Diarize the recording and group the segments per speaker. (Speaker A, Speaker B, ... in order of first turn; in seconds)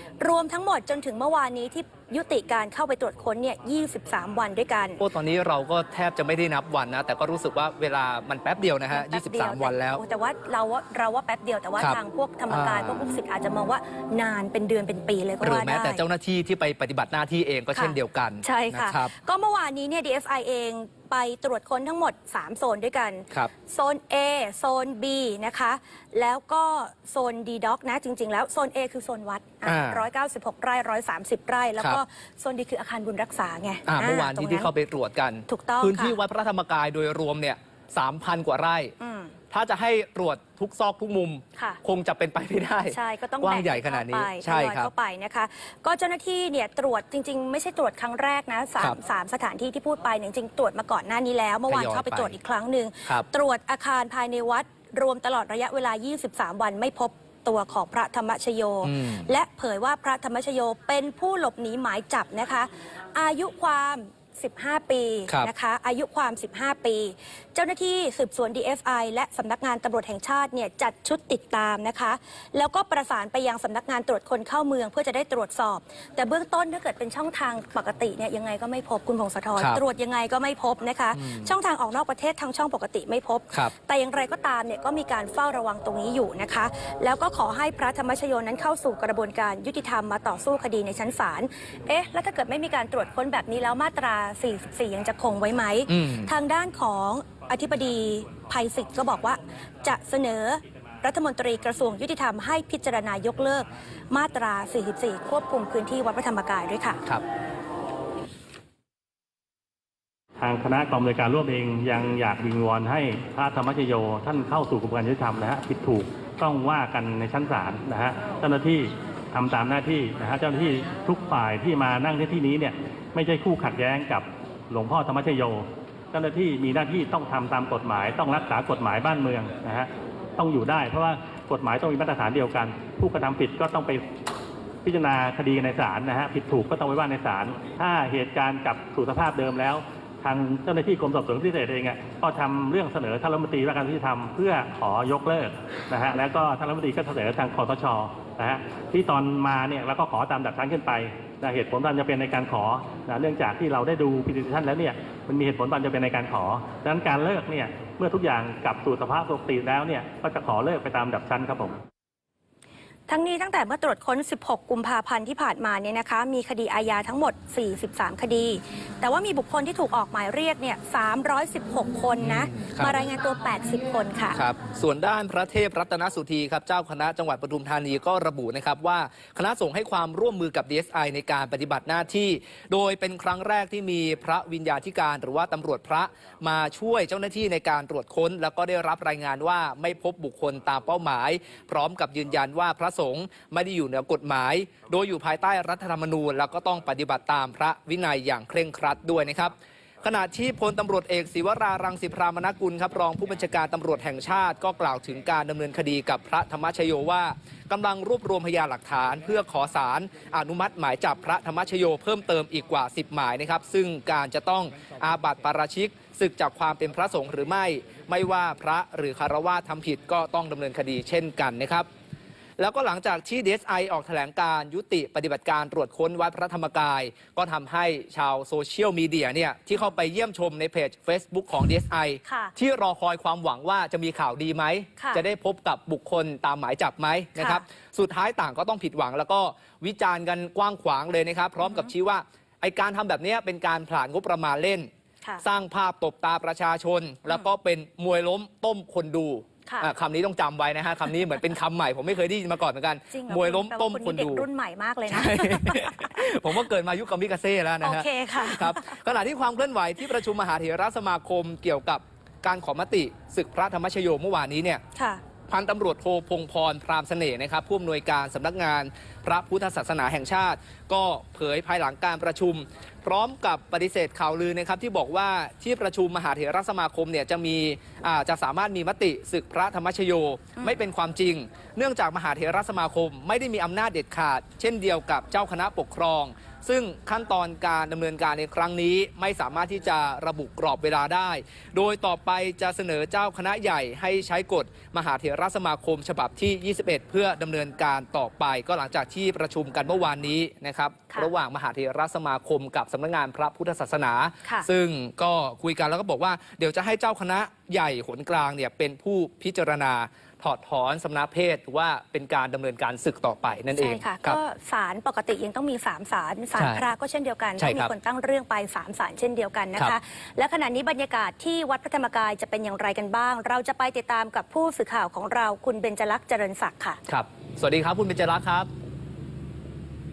Speaker A: 0.2-5.0, 8.9-16.0, 17.7-34.7, 35.5-36.2, 39.0-39.3, 42.9-107.0, 163.1-174.4, 232.2-232.5, 235.0-235.2, 237.3-237.6, 241.7-241.9, 249.7-249.9, 253.1-256.6, 257.8-259.0, 264.9-265.2, 313.7-327.0
Speaker B: 5.0-10.0, 11.8-13.1, 15.4-19.1, 29.6-30.1, 33.9-38.9, 39.5-44.9, 51.7-52.4, 58.8-59.3, 79.6-79.8, 81.1-81.5, 95.9-96.3, 172.2-173.0, 174.3-221.9, 222.6-244.9, 245.4-254.5, 255.1-264.8, 265.5-314.4, 316.6-316.8, 317.6-317.9, 327.1-328.7
Speaker C: 110.4-134.0, 134.8-161.8